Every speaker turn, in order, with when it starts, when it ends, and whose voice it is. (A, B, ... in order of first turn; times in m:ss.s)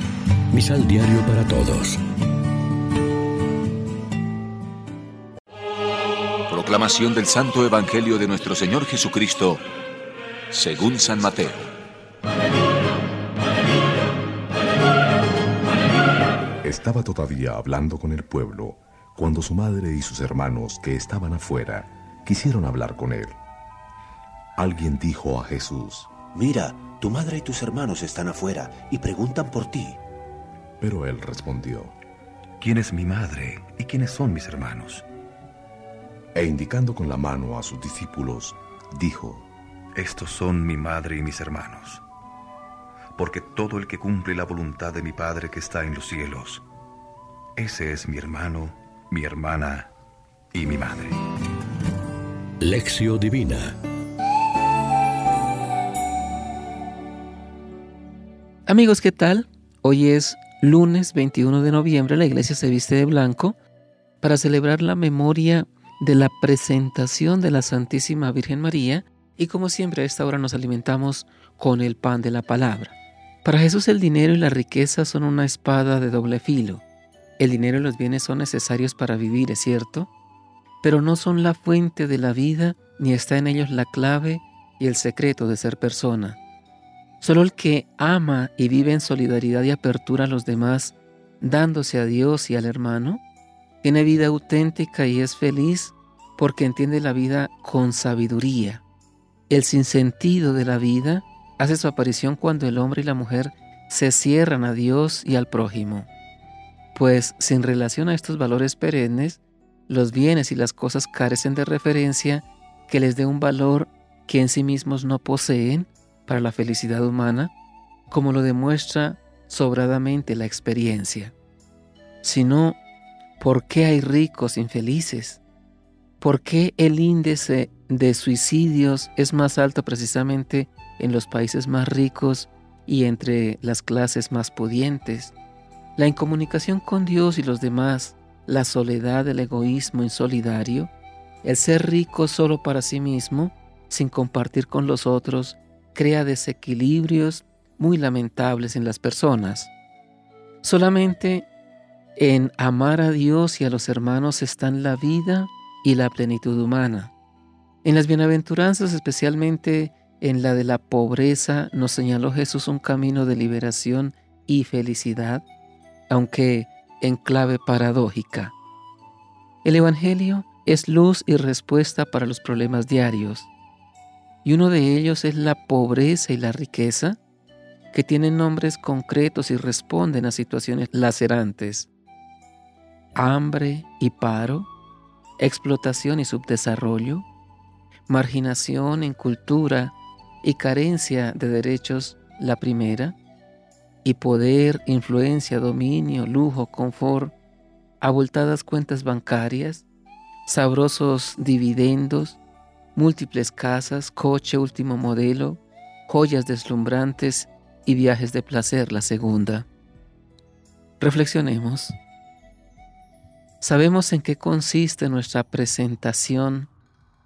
0:00.5-0:02.0 A
0:06.5-0:09.6 B
0:10.5-0:11.7 B
0:16.6-0:23.4 C
0:24.6-0:26.1 C
0:26.3-0:30.0 D
0:30.8-0:31.9 C
0:32.6-0:35.0 E
0:36.3-0:39.5 C
0:40.0-0:42.0 E
0:43.1-0:46.6 E
0:47.6-0:49.9 E
0:50.5-0:51.2 E
0:52.6-0:53.7 A
0:58.6-1:03.6 F
1:04.2-1:16.8 F
1:17.4-1:20.1 F
1:20.8-1:26.4 F
1:27.2-1:33.2 F
1:33.8-1:38.8 F
1:39.5-1:46.1 F
1:46.9-1:57.5 F
1:58.1-2:01.3 F
2:02.2-2:02.8 F
2:03.4-2:05.4 F
2:06.2-2:15.3 F
2:16.0-2:20.9 F
2:21.4-2:29.7 F
2:30.6-2:31.5 F
2:32.2-2:37.1 F
2:37.8-2:45.4 F
2:46.1-2:48.5 F
2:49.6-2:53.5 F
2:54.4-2:57.2 F
2:57.9-3:01.9 F
3:03.1-3:04.7 F
3:05.4-3:07.3 F
3:08.1-3:13.2 F
3:14.0-3:17.3 F
3:18.0-3:19.8 F
3:20.4-3:22.4 F
3:22.9-3:29.7 F
3:31.0-3:32.0 F
3:33.6-3:36.7 F